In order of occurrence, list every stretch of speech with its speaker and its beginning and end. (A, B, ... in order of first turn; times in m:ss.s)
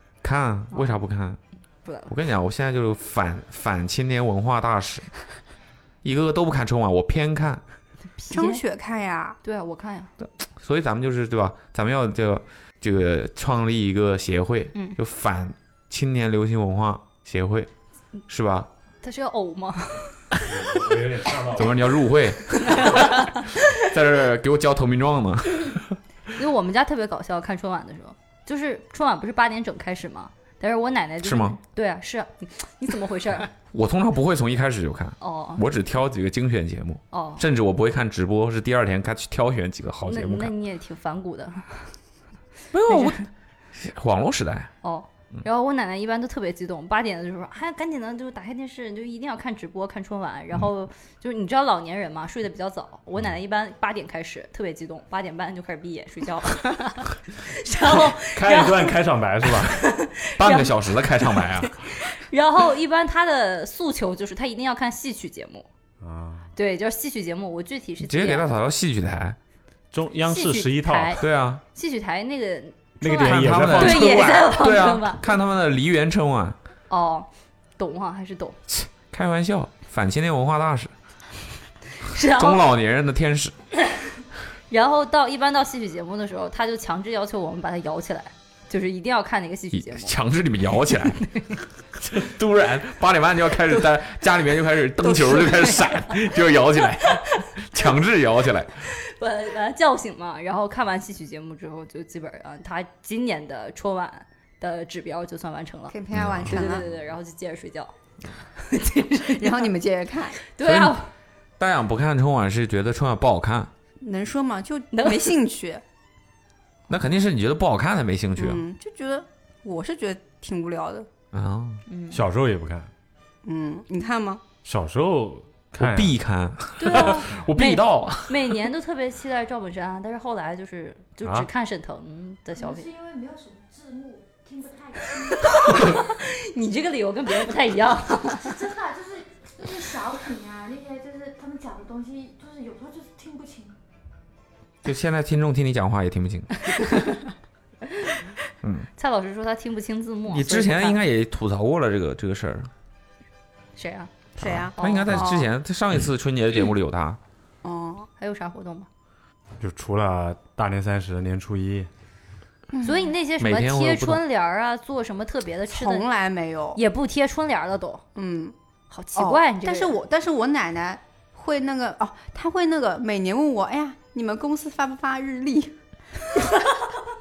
0:00.2-0:01.4 A
0:00.7-0:01.0 B
0:01.8-0:02.1 B
0:02.1-0:05.1 A
0:06.0-0:07.6 A
0:08.2-0:08.6 B
0:08.3-0:09.4 C
0:09.4-0:10.1 B
0:10.2-0:17.7 A
0:18.3-0:18.7 A
0:19.0-0:20.3 B
0:20.5-0:22.0 D
0:21.5-0:25.8 A
0:22.7-0:23.5 B
0:26.4-0:33.5 B
0:31.2-0:31.6 A
0:33.7-0:40.5 A
0:35.2-0:35.7 B
0:37.1-0:37.4 B
0:40.0-0:42.0 B
0:42.7-0:44.7 A
0:42.9-0:43.2 B
0:44.8-0:58.9 B
0:58.1-0:59.8 D
0:59.7-1:05.7 B
1:00.4-1:01.8 A
1:06.0-1:06.5 D
1:06.6-1:08.5 B
1:08.0-1:09.4 A
1:09.9-1:11.2 D
1:10.3-1:15.3 B
1:11.2-1:11.6 A
1:13.0-1:14.5 D
1:13.2-1:16.6 A
1:16.9-1:18.6 B
1:18.7-1:20.9 A
1:22.0-1:22.6 B
1:22.2-1:23.5 A
1:24.7-1:30.1 B
1:29.7-1:31.2 A
1:31.2-1:31.6 B
1:32.0-1:38.8 A
1:35.2-1:35.7 C
1:35.4-1:36.2 B
1:39.0-1:47.9 B
1:45.9-1:46.8 C
1:46.1-1:46.8 A
1:48.6-1:49.7 B
1:49.3-1:50.4 C
1:50.5-1:51.1 B
1:50.6-1:51.0 A
1:51.6-1:53.7 A
1:54.0-1:55.8 C
1:54.9-1:55.3 B
1:56.9-1:58.6 A
1:58.4-2:01.1 C
2:01.3-2:01.8 A
2:01.9-2:02.2 B
2:02.1-2:02.9 D
2:03.4-2:04.4 C
2:04.6-2:06.1 D
2:05.8-2:08.6 A
2:06.8-2:12.9 B
2:12.6-2:16.0 E
2:15.4-2:18.6 B
2:18.4-2:23.7 E
2:24.8-2:26.5 A
2:28.6-2:28.9 A
2:29.0-2:31.0 B
2:30.3-2:32.7 A
2:33.8-2:34.1 B
2:34.4-2:35.5 C
2:34.4-2:37.2 A
2:34.7-2:35.2 B
2:37.6-2:38.1 C
2:38.2-2:38.9 B
2:39.6-2:41.9 D
2:42.7-2:43.1 C
2:42.8-2:46.0 B
2:43.4-2:44.2 A
2:45.7-2:46.8 C
2:46.7-2:48.0 B
2:48.2-2:48.5 C
2:48.9-2:50.0 B
2:49.1-2:55.7 C
2:56.3-2:56.9 C